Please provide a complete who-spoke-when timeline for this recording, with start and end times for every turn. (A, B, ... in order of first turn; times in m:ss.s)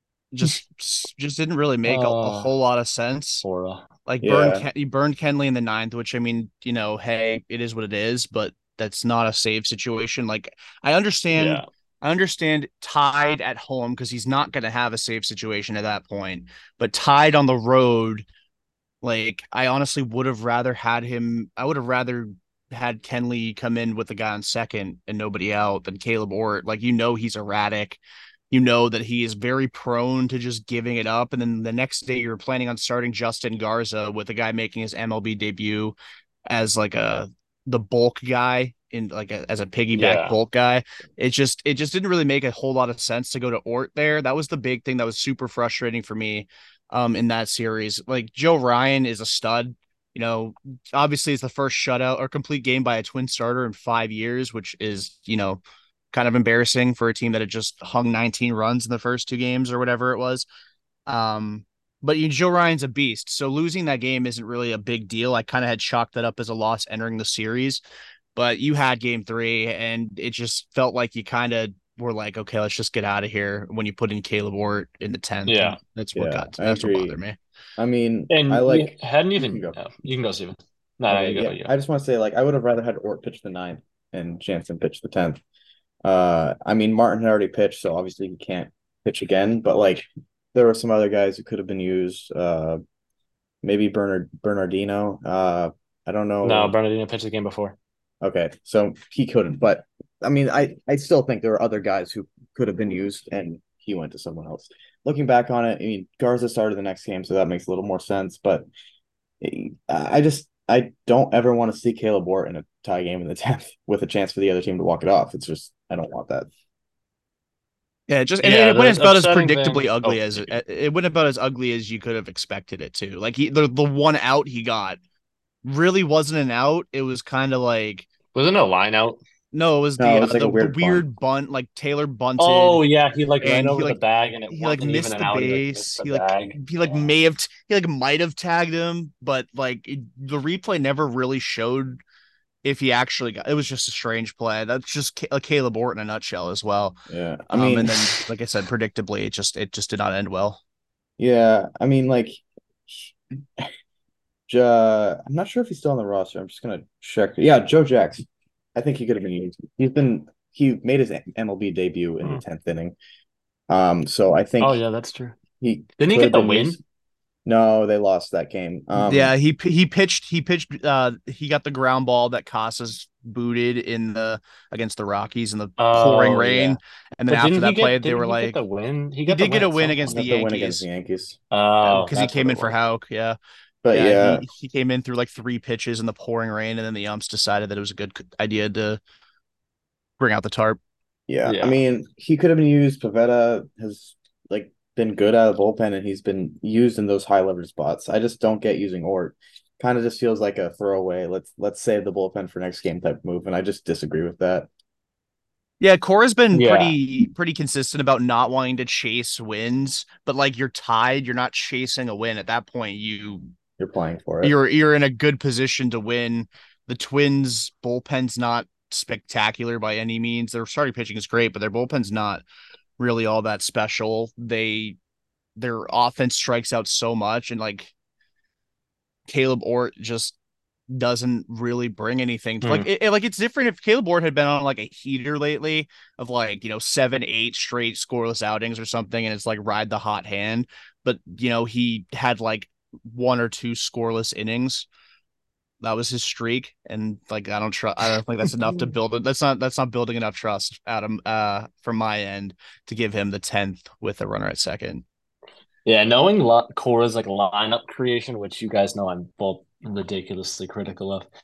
0:00.3-0:03.4 A
0:01.9-0:02.6 B
0:03.4-0:03.9 B
0:04.1-0:18.3 A
0:04.2-0:04.6 C
0:11.4-0:11.6 B
0:19.0-0:28.0 A
0:28.5-0:36.0 A
0:36.5-0:55.6 A
0:40.0-0:40.4 B
0:56.1-1:00.4 A
1:01.1-1:07.8 A
1:08.4-1:17.4 A
1:15.5-1:15.8 B
1:16.2-1:17.2 C
1:17.8-1:19.8 C
1:18.3-1:21.7 B
1:21.1-1:25.4 C
1:26.0-1:32.8 C
1:33.6-1:36.8 C
1:36.4-1:37.8 B
1:38.2-1:48.7 C
1:49.4-1:56.5 C
1:58.1-2:05.0 A
1:58.4-2:00.6 B
2:05.6-2:08.1 A
2:08.3-2:09.2 B
2:09.5-2:12.8 A
2:10.0-2:11.0 C
2:12.4-2:17.1 B
2:13.4-2:14.0 A
2:14.5-2:22.0 A
2:22.6-2:27.0 A
2:27.1-2:28.2 C
2:27.5-2:30.6 A
2:31.2-2:33.7 C
2:34.5-2:43.0 C
2:43.7-2:44.8 C
2:44.6-2:45.4 B
2:45.6-2:46.8 C
2:46.0-2:46.8 B
2:47.5-2:49.3 C
2:49.1-2:58.6 A
2:55.8-3:00.2 B
2:59.3-3:00.8 A
3:00.1-3:01.4 C
3:01.5-3:02.7 B
3:01.9-3:03.4 A
3:03.8-3:04.5 C
3:03.9-3:09.0 A
3:10.2-3:10.8 A
3:11.3-3:24.7 C
3:11.4-3:11.8 B
3:25.8-3:33.5 A
3:26.5-3:27.0 B
3:33.8-3:34.5 C
3:34.4-3:42.4 A
3:43.0-3:45.0 A
3:45.6-3:47.9 A
3:49.3-3:50.4 A
3:50.9-4:04.9 A
3:52.6-3:52.9 B
4:05.8-4:15.0 A
4:15.8-4:21.2 B